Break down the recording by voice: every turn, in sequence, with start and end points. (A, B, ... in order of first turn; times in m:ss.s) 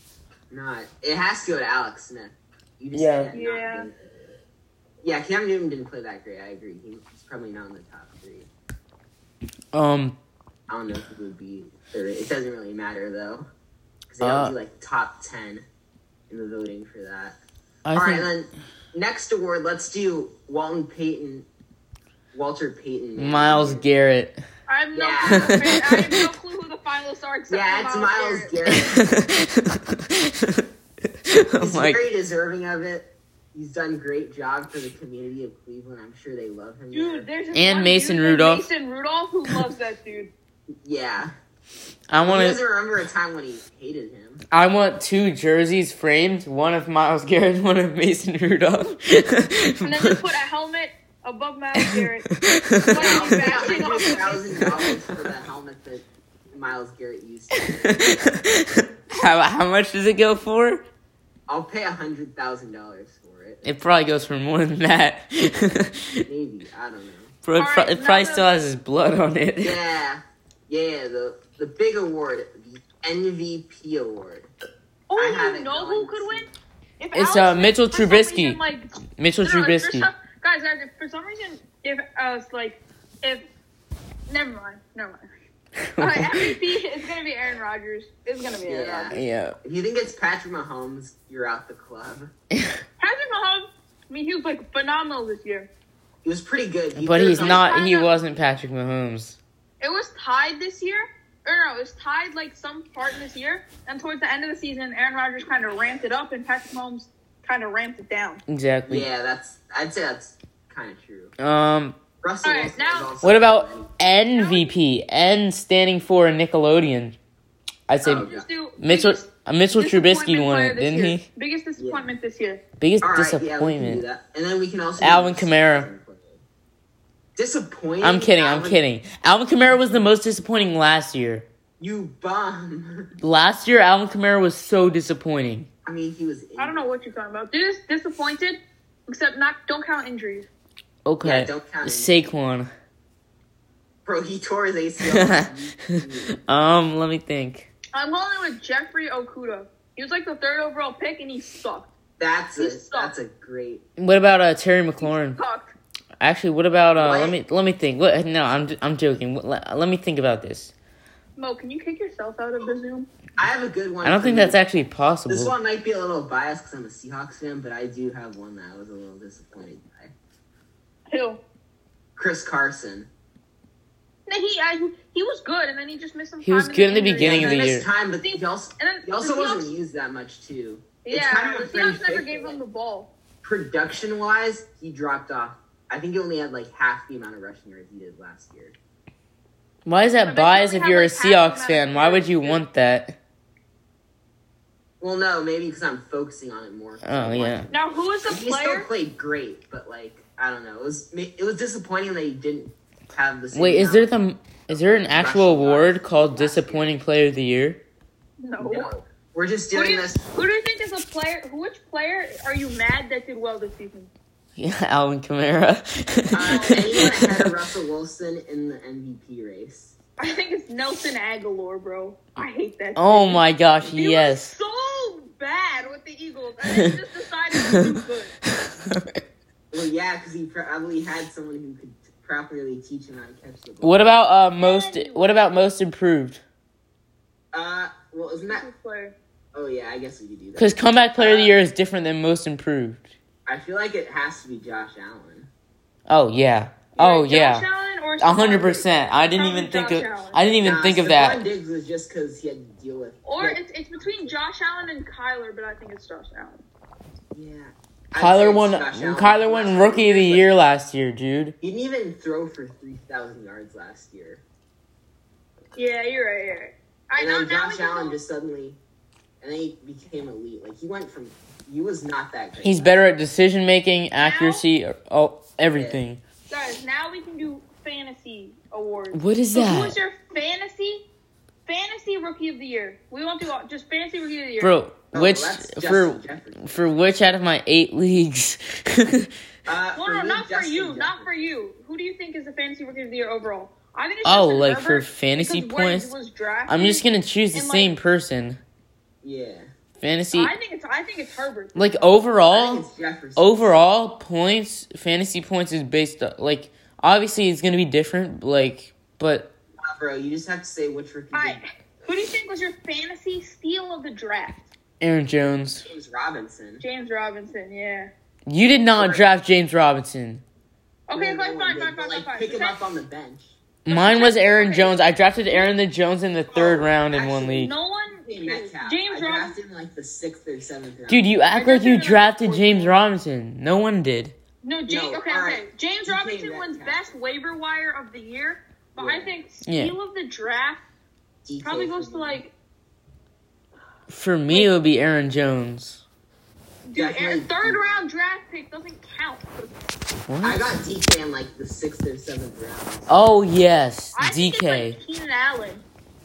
0:00.5-0:04.1 A
0:02.9-0:03.4 B
0:03.3-0:03.9 C
0:05.0-0:08.5 A
0:09.7-0:10.2 B
0:10.7-0:13.5 A
0:14.1-0:15.6 A
0:14.2-0:14.5 B
0:16.3-0:17.4 A
0:17.8-0:18.3 B
0:17.9-0:21.5 A
0:22.3-0:23.8 A
0:23.2-0:24.4 B
0:24.7-0:28.8 C
0:24.9-0:25.6 A
0:25.2-0:26.3 B
0:27.5-0:29.0 A
0:28.7-0:30.6 B
0:31.3-0:32.0 B
0:31.6-0:37.3 A
0:36.9-0:40.3 C
0:37.5-0:38.6 B
0:40.8-0:41.3 A
0:42.1-0:42.6 B
0:42.2-0:44.4 A
0:44.5-0:50.2 B
0:49.8-0:52.3 C
0:51.8-0:55.2 B
0:52.9-0:54.7 C
0:52.9-0:58.4 A
0:57.6-1:00.8 B
1:01.5-1:03.6 A
1:03.6-1:06.2 B
1:06.3-1:07.4 A
1:07.4-1:09.8 B
1:07.6-1:08.5 C
1:09.6-1:14.5 A
1:15.1-1:16.5 C
1:15.2-1:16.5 A
1:17.0-1:18.9 C
1:17.1-1:18.6 B
1:19.2-1:20.1 B
1:19.4-1:23.4 C
1:24.3-1:25.2 C
1:25.8-1:26.6 B
1:26.0-1:29.2 C
1:28.7-1:32.3 A
1:29.1-1:29.6 B
1:33.0-1:35.7 C
1:36.2-1:37.6 A
1:37.0-1:39.4 B
1:37.4-1:38.1 C
1:39.8-1:48.4 C
1:48.5-1:49.1 B
1:48.9-1:51.4 A
1:51.4-1:52.0 B
1:52.2-1:53.9 A
1:52.4-1:53.1 C
1:53.2-1:57.2 B
1:54.4-1:54.8 C
1:57.9-1:58.3 B
1:58.0-1:58.5 A
1:58.1-2:02.6 C
1:58.8-2:01.2 B
2:01.8-2:02.1 A
2:02.8-2:04.0 B
2:03.0-2:06.4 A
2:05.0-2:05.9 B
2:07.4-2:08.8 A
2:08.0-2:11.5 B
2:11.8-2:13.1 A
2:13.2-2:15.7 B
2:15.9-2:16.9 A
2:16.6-2:20.5 C
2:21.0-2:22.7 B
2:21.2-2:22.1 A
2:24.0-2:26.4 A
2:25.0-2:27.7 B
2:27.9-2:31.9 C
2:32.2-2:33.8 A
2:32.6-2:33.1 C
2:34.0-2:35.4 B
2:35.0-2:35.8 C
2:36.2-2:40.7 B
2:37.0-2:37.4 A
2:41.4-2:43.1 C
2:43.4-2:44.6 A
2:44.0-2:45.5 B
2:45.3-2:50.1 A
2:51.1-2:51.4 C
2:52.2-2:53.1 A
2:54.3-2:59.7 C
2:56.4-2:57.9 B
2:57.2-3:02.6 A
3:01.0-3:03.1 C
3:03.4-3:08.8 A
3:09.9-3:13.2 B
3:10.2-3:12.6 C
3:15.0-3:17.7 A
3:17.0-3:17.7 B
3:17.7-3:18.9 C
3:18.2-3:24.1 A
3:23.5-3:27.8 B
3:24.7-3:26.9 A
3:28.4-3:28.9 C
3:28.6-3:30.2 A
3:29.7-3:34.1 C
3:34.6-3:37.5 B
3:36.3-3:40.0 A
3:36.5-3:37.1 C
3:40.2-3:48.4 C
3:43.0-3:44.5 B
3:46.7-3:46.9 B
3:47.6-3:48.0 B
3:48.5-3:49.0 B
3:49.7-3:54.0 A
3:53.8-3:56.4 B
3:54.6-3:55.6 C
3:57.5-3:58.7 A
3:58.3-3:59.2 C
3:59.5-4:01.6 A
4:00.6-4:03.1 B
4:03.5-4:05.5 A
4:06.1-4:07.7 B
4:07.0-4:10.4 C
4:08.2-4:11.4 B
4:10.6-4:14.4 A
4:13.2-4:16.6 C
4:17.3-4:20.5 A
4:18.2-4:21.6 B
4:21.6-4:24.4 A
4:25.8-4:28.2 C
4:27.2-4:28.8 A
4:29.4-4:33.0 A
4:32.6-4:36.2 B
4:34.2-4:34.6 C
4:35.7-4:36.0 A
4:36.5-4:41.0 C
4:39.1-4:40.0 B
4:41.7-4:44.8 C
4:44.6-4:49.3 B
4:45.1-4:46.6 A
4:49.7-4:51.3 A
4:50.0-4:58.0 C
4:54.2-4:56.1 B
4:56.7-4:58.6 B
4:59.2-4:59.7 A
5:00.0-5:00.5 B
5:00.3-5:02.1 C
5:01.8-5:09.5 B
5:02.5-5:03.8 A
5:09.8-5:11.6 A
5:11.3-5:14.7 C
5:15.0-5:15.9 B
5:15.8-5:16.8 A
5:16.8-5:18.1 C
5:18.5-5:20.4 B
5:19.0-5:19.2 A
5:21.1-5:22.8 C
5:21.1-5:23.6 A
5:23.8-5:27.7 B
5:23.9-5:25.0 C
5:26.5-5:27.7 A
5:27.6-5:29.6 C
5:28.3-5:31.3 A
5:31.1-5:34.4 B
5:31.5-5:33.0 C
5:34.6-5:40.8 C
5:34.9-5:37.2 A
5:39.0-5:39.4 A
5:39.6-5:39.9 B
5:41.4-5:42.4 A
5:41.6-5:42.5 C
5:44.1-5:46.0 B
5:46.9-5:49.7 C
5:47.0-5:47.9 A
5:50.3-5:50.8 B
5:50.4-5:53.4 A
5:53.1-5:55.0 B
5:54.2-5:55.8 C